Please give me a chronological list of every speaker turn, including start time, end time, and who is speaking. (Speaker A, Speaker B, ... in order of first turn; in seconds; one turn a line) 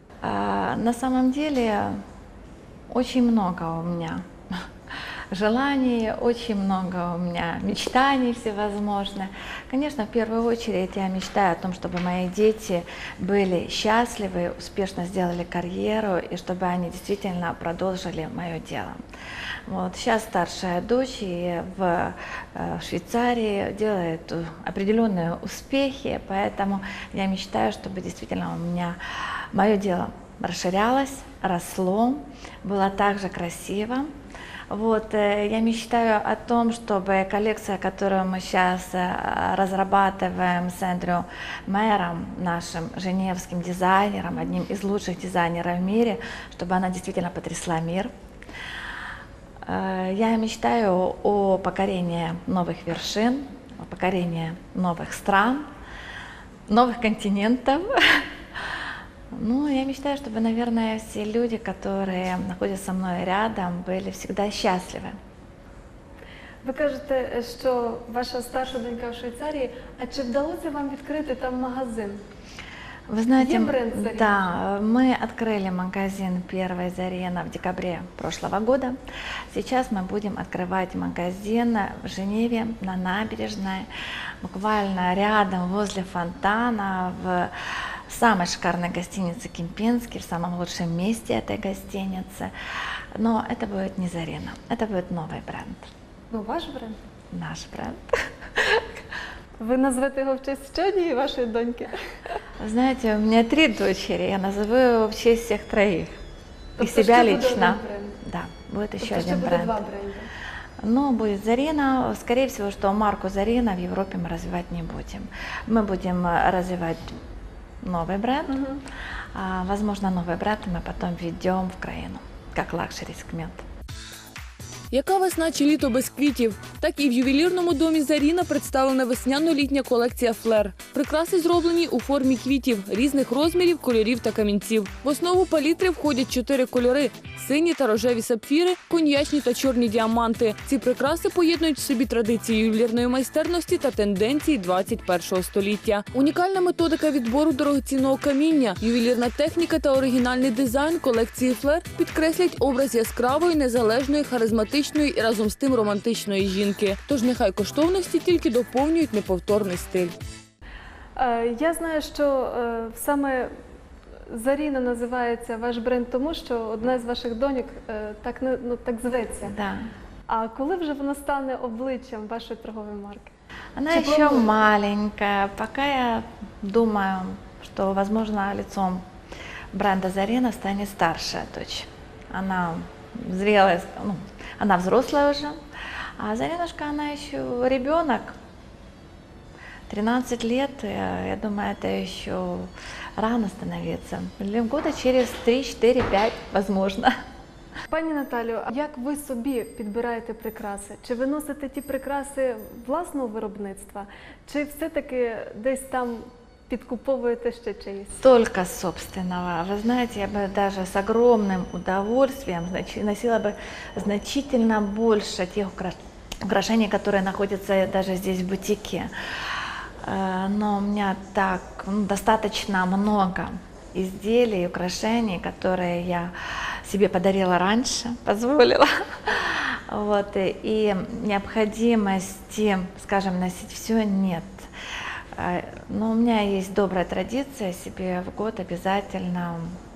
Speaker A: 0.2-2.0
Speaker A: 2.9-4.2
Speaker A: 5.3-19.0
Speaker A: 19.7-29.0
Speaker A: 29.5-34.1
Speaker A: 34.7-48.1
Speaker A: 49.6-55.7
Speaker A: 56.7-58.3
Speaker A: 59.3-65.2
Speaker B: 66.6-72.2
Speaker A: 73.1-79.0
Speaker B: 73.4-74.5
Speaker A: 79.5-83.9
Speaker A: 84.4-87.5
Speaker A: 88.1-92.5
Speaker A: 93.2-95.9
Speaker B: 96.3-97.0
Speaker A: 97.3-98.8
Speaker B: 99.6-102.0
Speaker A: 102.6-106.2
Speaker B: 106.8-108.2
Speaker A: 106.8-109.8
Speaker B: 109.0-110.3
Speaker A: 110.8-117.1
Speaker A: 117.8-118.6
Speaker B: 118.5-118.8
Speaker A: 119.3-123.6
Speaker C: 124.9-160.1
Speaker B: 161.2-163.5
Speaker B: 164.3-169.6
Speaker A: 169.4-169.9
Speaker B: 170.3-173.3
Speaker A: 173.8-179.0
Speaker B: 173.9-174.5
Speaker A: 179.7-185.6
Speaker A: 186.2-188.4
Speaker A: 189.9-197.1
Speaker B: 197.9-208.2
Speaker A: 208.2-234.7
Speaker A: 235.3-239.7